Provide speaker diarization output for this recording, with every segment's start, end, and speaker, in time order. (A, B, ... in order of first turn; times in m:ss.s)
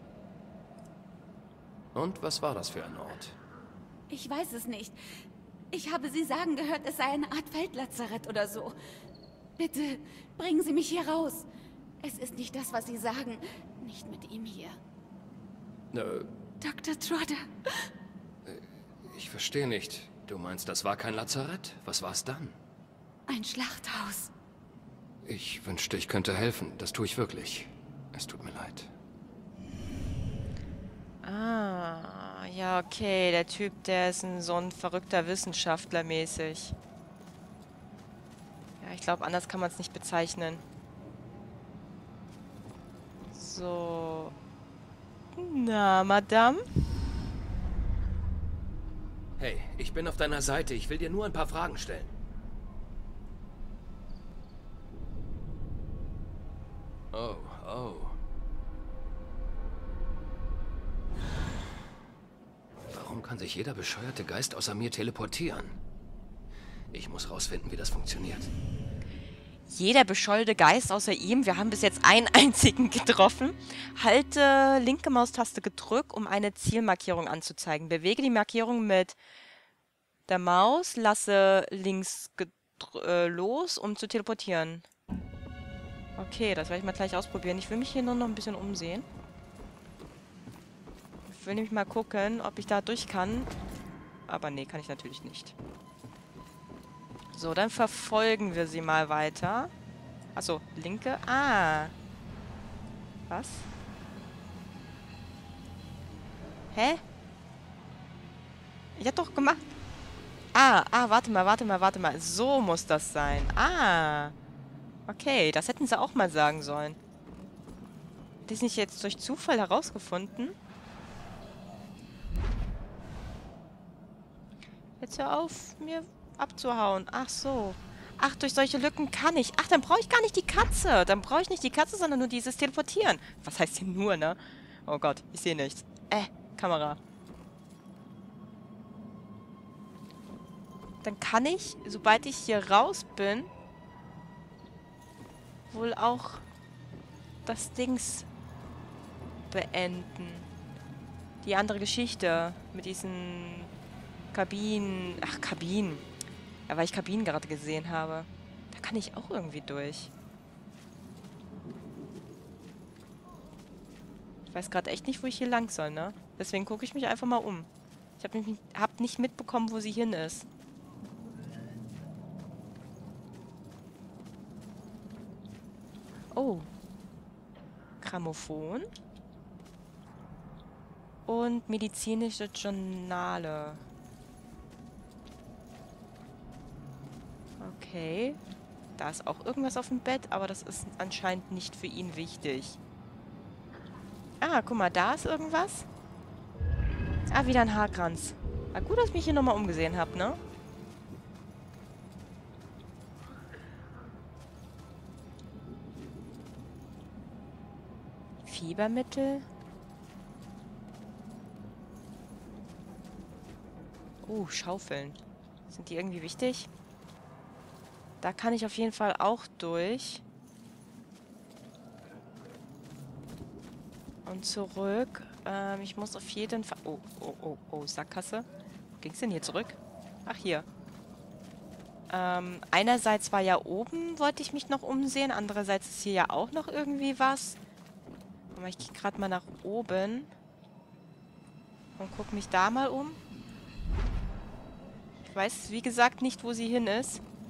0:01.9-0:03.4 A
0:04.1-0:05.0 B
0:05.7-0:08.7 B
0:09.6-0:11.5 B
0:12.0-0:14.8 B
0:15.9-0:16.3 A
0:16.6-0:17.4 B
0:18.4-0:22.6 A
0:23.3-0:24.3 B
0:25.2-0:28.9 A
0:31.2-0:36.8 C
0:38.8-0:40.6 C
0:43.3-0:44.3 C
0:45.3-0:46.6 C
0:49.4-0:52.1 A
0:57.1-0:58.2 A
1:02.9-1:05.8 A
1:06.9-1:08.5 A
1:09.7-1:19.2 C
1:20.3-1:24.8 C
1:26.2-1:29.0 C
1:31.3-1:33.5 C
1:34.3-1:35.5 C
1:37.3-1:39.7 C
1:40.3-1:41.9 C
1:43.3-1:43.7 C
1:46.7-1:47.0 C
1:49.0-1:49.6 C
1:50.5-1:54.3 C
1:55.1-1:57.0 C
1:58.5-2:00.5 C
2:05.0-2:17.0 C
2:21.0-2:23.5 C
2:25.7-2:26.4 C
2:27.4-2:28.3 C
2:29.5-2:30.5 C
2:31.4-2:33.7 C
2:34.3-2:36.0 C
2:36.7-2:40.1 C
2:44.5-2:50.5 C
2:56.3-2:56.7 C
2:58.0-2:58.9 C
3:01.3-3:03.8 C
3:07.6-3:08.4 C
3:09.0-3:12.8 C
3:14.4-3:15.9 C
3:17.3-3:20.4 C
3:28.4-3:29.4 C
3:34.2-3:36.7 C
3:38.2-3:40.2 C
3:44.2-3:48.4 C
3:49.0-3:50.6 C
3:52.1-3:57.6 C
3:58.5-4:00.3 C
4:02.0-4:03.2 C
4:05.3-4:07.2 C